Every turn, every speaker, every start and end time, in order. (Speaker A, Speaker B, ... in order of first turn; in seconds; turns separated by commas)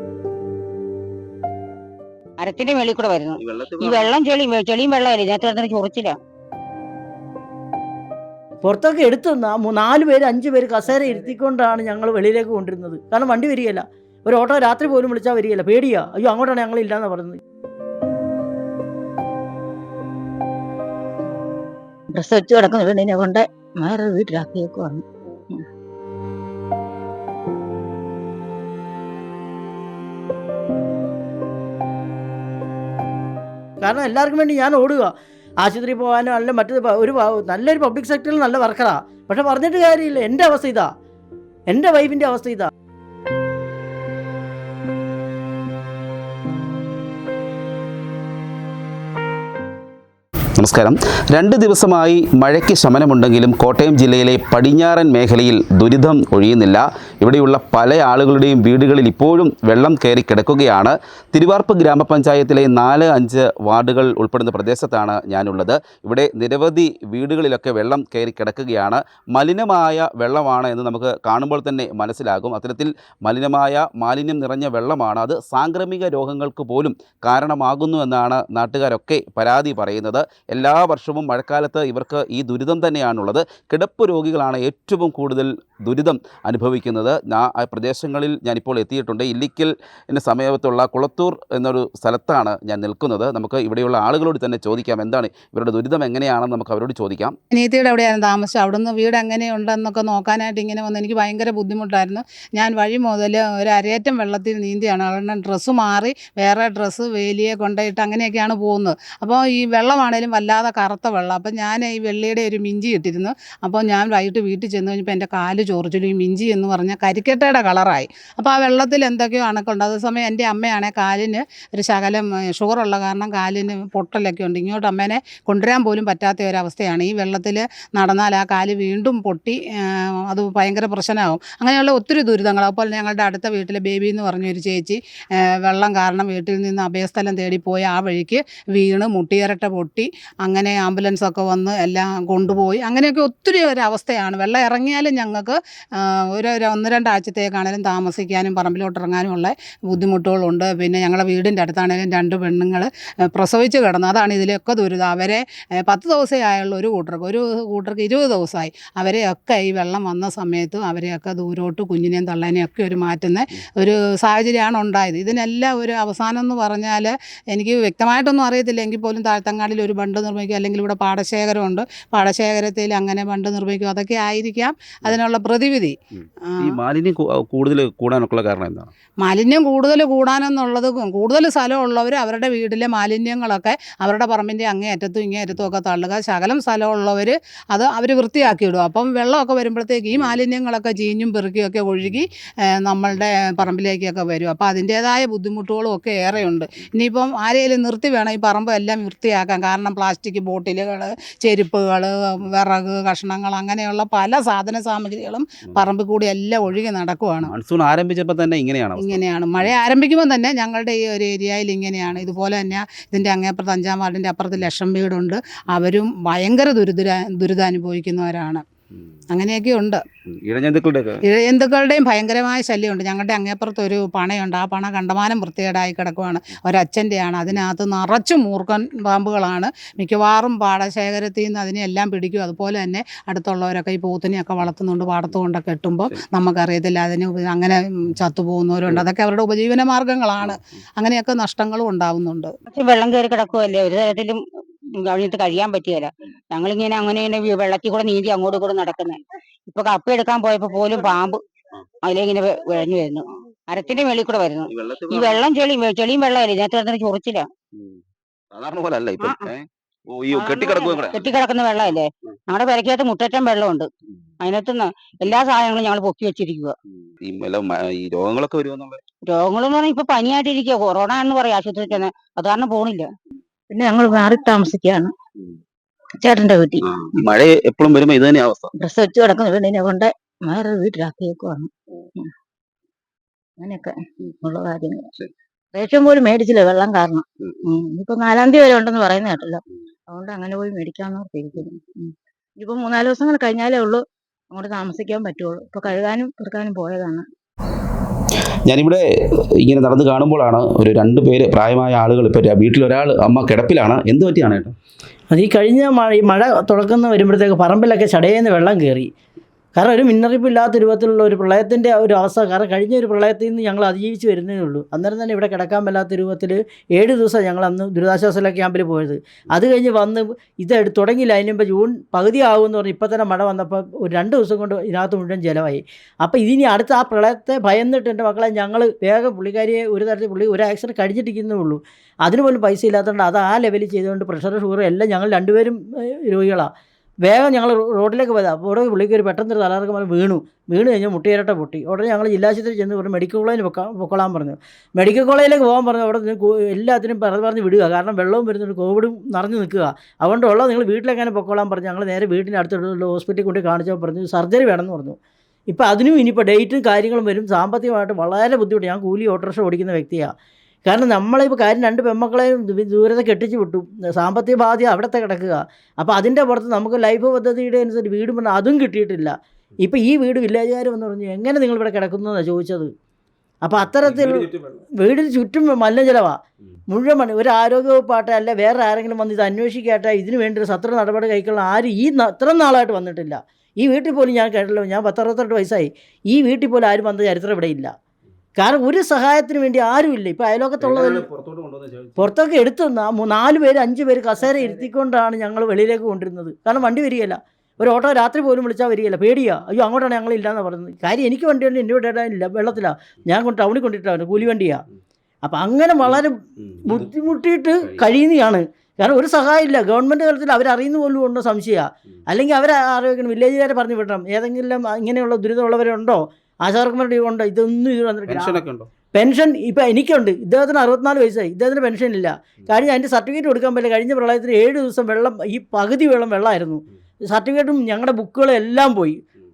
Speaker A: 2.4-6.1, Speaker B: 3.4-4.1, Speaker C: 8.6-17.4, Speaker D: 22.1-25.6, Speaker C: 33.8-40.9, Speaker C: 41.7-42.7, Speaker B: 50.6-97.3, Speaker E: 97.5-129.6, Speaker E: 130.3-135.0, Speaker E: 135.6-175.9, Speaker E: 176.5-176.8, Speaker B: 176.6-178.9, Speaker E: 179.2-192.3, Speaker E: 192.8-207.5, Speaker B: 207.4-209.7, Speaker E: 209.0-218.6, Speaker E: 219.3-220.0, Speaker B: 220.3-221.2, Speaker E: 221.3-242.5, Speaker A: 242.7-244.4, Speaker A: 245.0-251.4, Speaker A: 252.0-257.4, Speaker B: 254.7-255.4, Speaker B: 258.5-261.3, Speaker A: 259.2-259.5, Speaker A: 260.3-263.9, Speaker A: 264.4-266.7, Speaker B: 267.2-269.0, Speaker A: 269.2-273.1, Speaker D: 273.7-275.1, Speaker D: 276.1-277.0, Speaker B: 276.8-278.7, Speaker D: 278.8-282.3, Speaker D: 283.6-285.1, Speaker D: 285.7-297.3, Speaker B: 298.7-299.0, Speaker B: 299.6-304.7, Speaker C: 305.3-309.1, Speaker C: 309.8-336.7, Speaker C: 337.2-355.2, Speaker C: 355.7-360.3, Speaker C: 360.9-372.9, Speaker C: 373.6-376.4, Speaker B: 373.8-374.8, Speaker C: 376.9-387.9, Speaker C: 388.6-391.2, Speaker B: 390.8-392.3, Speaker C: 392.2-404.8, Speaker C: 405.4-418.6, Speaker B: 406.0-407.1, Speaker B: 407.8-408.1, Speaker B: 418.3-418.9, Speaker C: 419.1-429.2